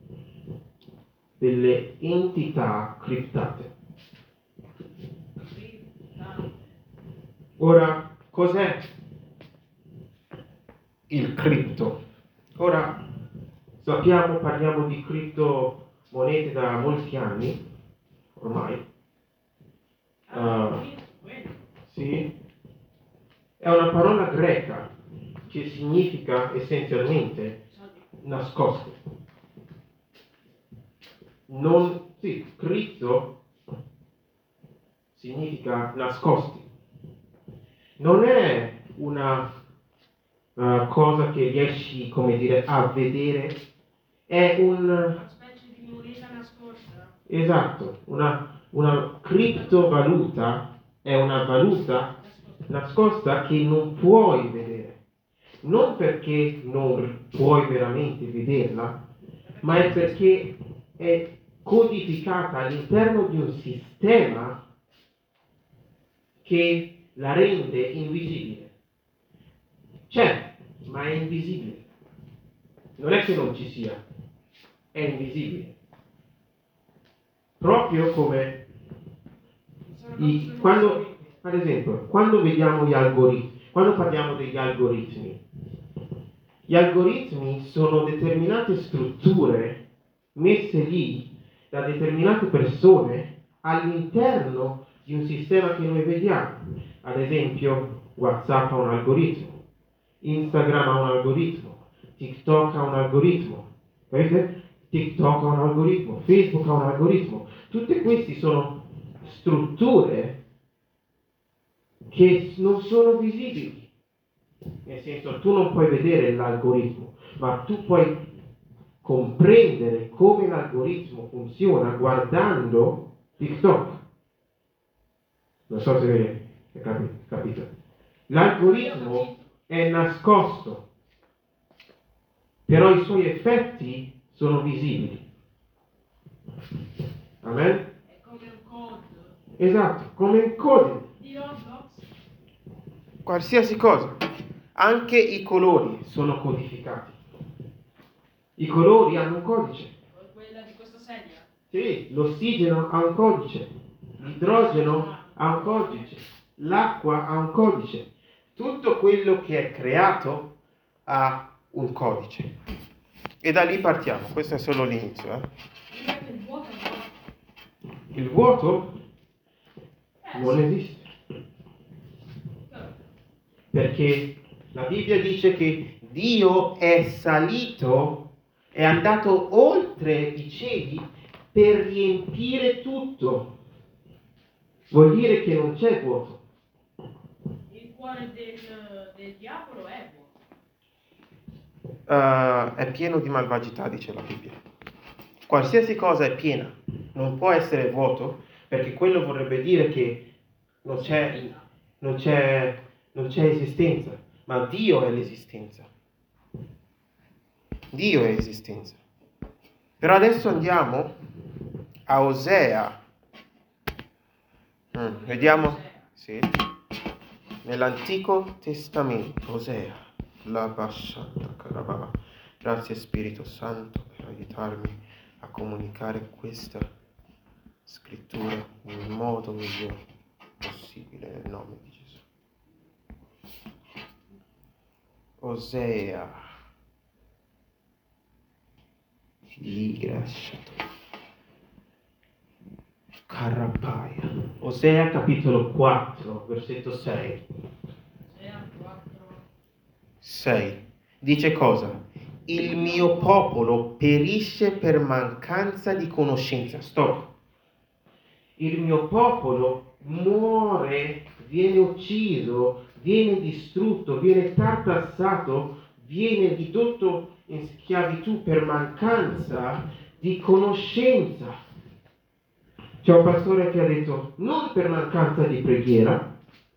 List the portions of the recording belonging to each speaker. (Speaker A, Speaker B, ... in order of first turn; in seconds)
Speaker A: 1.4-3.7, 7.6-8.8, 11.1-12.0, 12.6-12.9, 13.8-17.6, 18.4-18.8, 20.3-20.8, 21.9-22.3, 23.6-24.9, 25.5-27.6, 28.2-29.0, 31.5-33.3, 35.1-36.7, 38.0-39.5, 40.6-43.6, 44.3-45.2, 47.3-52.1, 52.7-55.0, 55.6-59.0, 59.6-64.6, 66.4-68.7, 70.1-71.8, 73.0-74.0, 74.9-75.8, 77.6-78.6, 80.2-85.4, 86.7-89.8, 90.3-99.6, 100.2-110.4, 112.1-113.9, 114.8-118.2, 119.0-124.0, 125.7-127.7, 128.3-130.8, 132.7-135.2, 137.4-137.9, 139.6-141.1, 143.3-144.2, 144.8-147.2, 148.6-149.9, 151.7-153.7, 154.2-160.5, 161.1-162.5, 163.4-165.5, 168.1-168.9, 170.3-171.1, 173.7-183.5, 184.9-186.4, 192.1-194.6, 195.5-200.2, 200.8-205.9, 207.9-209.0, 210.0-211.1, 212.1-213.0, 214.9-216.6, 217.6-226.9, 227.9-230.0, 230.6-232.2, 235.4-236.4, 239.6-240.8, 243.3-247.4, 250.2-257.3, 258.6-271.6, 273.0-276.2
Speaker B: 5.4-6.7, 20.3-21.6, 27.7-28.0, 45.1-47.1, 52.2-52.7, 59.5-60.3, 79.8-81.4, 128.5-129.5, 138.1-139.3, 141.2-142.1, 150.1-151.5, 154.4-156.2, 165.9-167.1, 170.2-170.6, 172.7-173.0, 187.7-190.3, 200.9-201.6, 215.0-216.1, 248.3-249.4, 252.6-253.4